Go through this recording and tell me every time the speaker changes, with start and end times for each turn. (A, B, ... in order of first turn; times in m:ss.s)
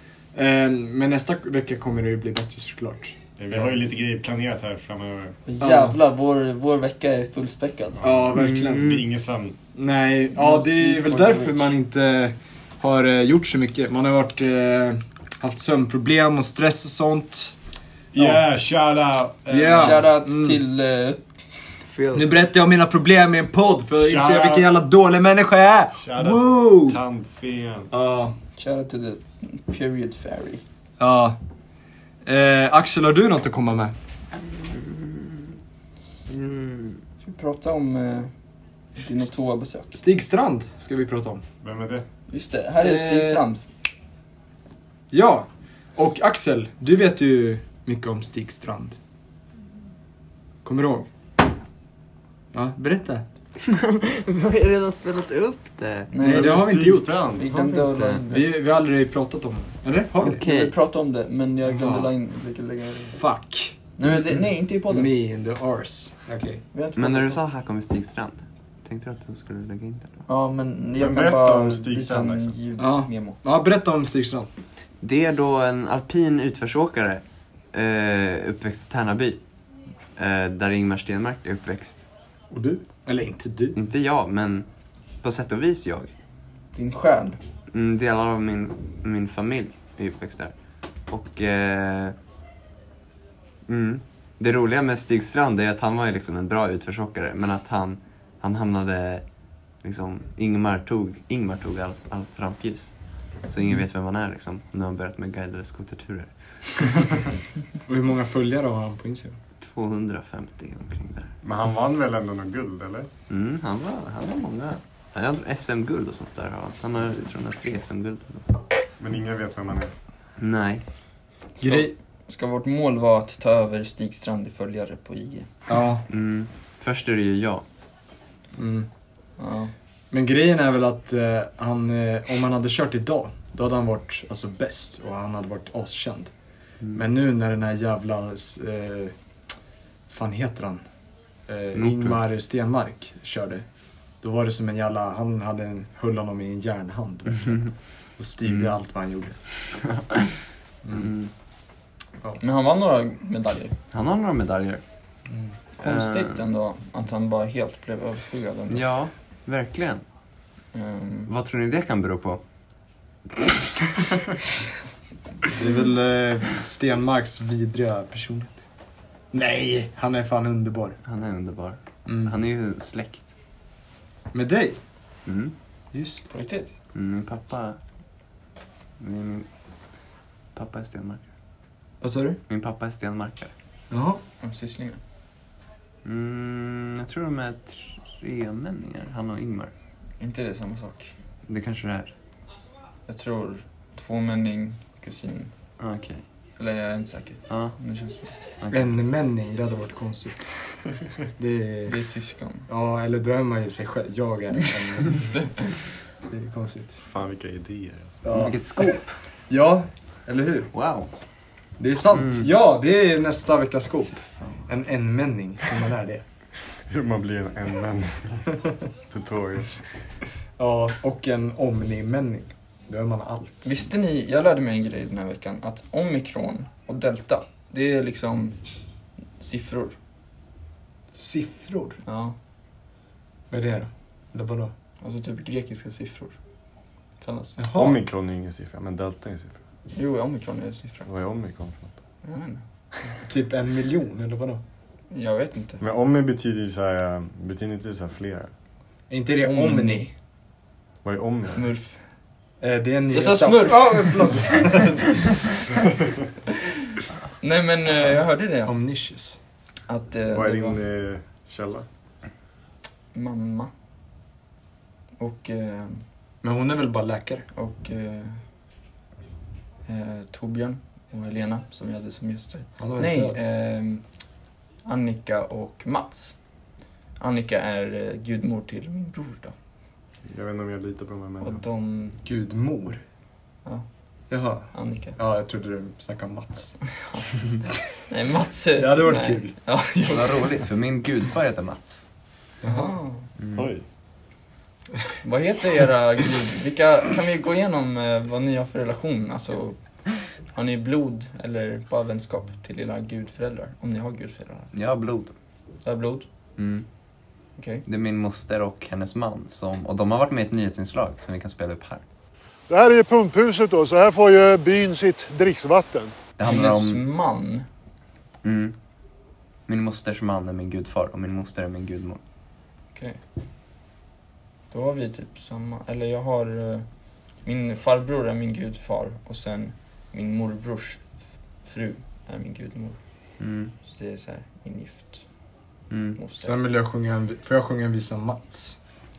0:00.3-0:03.6 A
0:03.4-0:05.4 B
0:05.5-0:08.0 C
0:05.6-0:06.0 A
0:08.0-0:09.6 B
0:08.0-0:09.0 A
0:08.3-0:09.0 D
0:09.7-0:17.6 A
0:10.3-0:11.7 C
0:18.1-0:20.0 B
0:18.2-0:18.4 A
0:19.5-0:20.6 A
0:19.7-0:21.2 C
0:22.1-0:27.0 A
0:23.9-0:24.7 B
0:25.9-0:27.9 B
0:27.9-0:28.3 A
0:28.6-0:30.6 C
0:31.0-0:31.4 A
0:32.2-0:33.9 A
0:34.5-0:35.4 D
0:36.3-0:37.0 D
0:37.2-0:38.3 C
0:39.0-0:39.9 C
0:39.9-0:41.4 A
0:41.6-0:42.0 B
0:42.3-0:43.6 C
0:42.8-0:43.4 A
0:45.1-0:49.0 A
0:50.6-0:51.1 A
0:52.5-0:53.2 A
0:53.6-0:56.1 D
0:56.1-0:56.7 C
0:56.2-0:57.8 B
0:56.2-0:57.2 A
0:57.4-0:58.5 C
0:57.9-0:58.2 D
0:58.3-1:00.4 A
1:00.2-1:00.7 D
1:00.4-1:03.2 C
1:01.7-1:02.1 A
1:03.0-1:03.8 A
1:04.0-1:05.1 C
1:04.9-1:06.6 A
1:06.7-1:07.4 C
1:07.0-1:10.2 D
1:10.3-1:13.4 C
1:11.0-1:12.5 B
1:12.8-1:14.5 A
1:15.0-1:19.4 D
1:20.2-1:22.0 D
1:22.5-1:23.8 A
1:23.7-1:24.7 D
1:25.2-1:26.1 D
1:26.7-1:27.4 C
1:27.7-1:30.5 D
1:31.1-1:32.2 D
1:33.7-1:39.2 D
1:39.8-1:47.0 D
1:47.8-1:49.4 A
1:49.6-1:51.3 D
1:51.4-1:53.1 B
1:53.3-1:58.6 D
1:59.0-1:59.9 B
2:00.4-2:00.8 D
2:01.6-2:01.9 A
2:01.6-2:05.5 C
2:05.7-2:06.0 A
2:06.1-2:07.6 D
2:08.6-2:08.9 A
2:09.4-2:09.7 C
2:10.1-2:16.3 A
2:16.9-2:19.1 A
2:20.1-2:20.8 A
2:21.5-2:23.6 A
2:21.7-2:22.2 D
2:24.2-2:27.7 A
2:28.2-2:29.4 A
2:28.4-2:28.7 D
2:29.9-2:30.3 D
2:30.8-2:31.1 A
2:30.9-2:31.3 D
2:32.4-2:33.8 C
2:33.9-2:34.8 D
2:35.3-2:35.5 A
2:35.8-2:38.9 C
2:35.8-2:36.4 D
2:38.7-2:40.0 D
2:40.7-2:41.3 C
2:41.3-2:42.4 D
2:45.5-2:48.6 A
2:49.3-2:51.0 A
2:51.0-2:53.3 D
2:52.0-2:52.4 A
2:54.3-2:54.8 A
2:55.2-2:55.5 D
2:55.9-2:56.3 A
2:56.3-2:56.7 C
2:56.9-2:57.8 D
2:59.0-2:59.5 D
3:00.5-3:01.2 D
3:02.0-3:02.4 A
3:02.5-3:03.5 D
3:03.9-3:04.2 A
3:04.4-3:05.0 C
3:06.0-3:09.7 D
3:10.2-3:11.1 C
3:11.5-3:12.1 D
3:13.1-3:15.5 C
3:15.8-3:16.2 D
3:16.6-3:18.3 C
3:17.5-3:17.8 D
3:18.6-3:18.9 D
3:18.7-3:20.5 A
3:21.4-3:22.0 A
3:21.9-3:22.7 C
3:22.7-3:25.5 A
3:25.0-3:25.7 C
3:26.3-3:27.0 A
3:27.1-3:28.2 B
3:28.2-3:30.7 A
3:28.3-3:29.2 D
3:30.7-3:31.1 D
3:31.8-3:36.2 A
3:32.1-3:32.5 D
3:36.9-3:38.4 B
3:39.1-3:39.8 B
3:40.6-3:43.8 A
3:43.6-3:48.6 C
3:49.4-3:50.0 C
3:51.1-3:52.0 A
3:52.0-3:52.4 C
3:53.5-3:54.7 A
3:55.0-3:56.4 C
3:57.2-3:57.6 C
3:57.6-3:58.0 A
3:57.7-3:59.6 B
3:59.9-4:01.1 C
4:01.0-4:01.9 B
4:02.2-4:02.6 C
4:03.2-4:04.6 A
4:05.1-4:05.8 C
4:05.8-4:08.5 B
4:09.1-4:10.0 A
4:09.4-4:10.1 C
4:11.0-4:11.7 B
4:11.5-4:12.0 C
4:12.6-4:15.5 A
4:13.1-4:14.8 C
4:17.4-4:18.7 C
4:17.9-4:19.4 A
4:19.9-4:20.8 C
4:20.3-4:21.8 B
4:23.1-4:23.7 C
4:25.2-4:26.0 C
4:26.4-4:27.4 A
4:27.5-4:28.4 C
4:29.9-4:34.0 C
4:32.8-4:33.4 A
4:34.8-4:36.3 C
4:37.2-4:39.5 C
4:40.2-4:41.6 B
4:41.4-4:42.2 C
4:42.2-4:43.0 A
4:44.3-4:46.8 A
4:44.7-4:45.2 C
4:47.0-4:47.2 C
4:48.0-4:50.5 C
4:48.8-4:49.5 A
4:50.1-4:52.0 D
4:52.6-4:52.9 A
4:52.6-4:53.3 C
4:53.4-4:53.7 D
4:53.5-4:53.8 B
4:55.2-5:04.7 C
5:04.7-5:05.3 D
5:05.8-5:06.3 C
5:06.6-5:06.8 D
5:07.6-5:07.8 C
5:07.9-5:12.0 D
5:12.7-5:16.1 E
5:16.4-5:17.0 D
5:16.4-5:17.6 C
5:18.4-5:18.8 D
5:19.7-5:22.2 D
5:24.7-5:26.8 C
5:27.4-5:31.0 C
5:31.6-5:33.0 C
5:33.4-5:33.7 D
5:33.8-5:35.2 C
5:35.9-5:36.2 D
5:36.2-5:36.6 C
5:36.4-5:38.8 A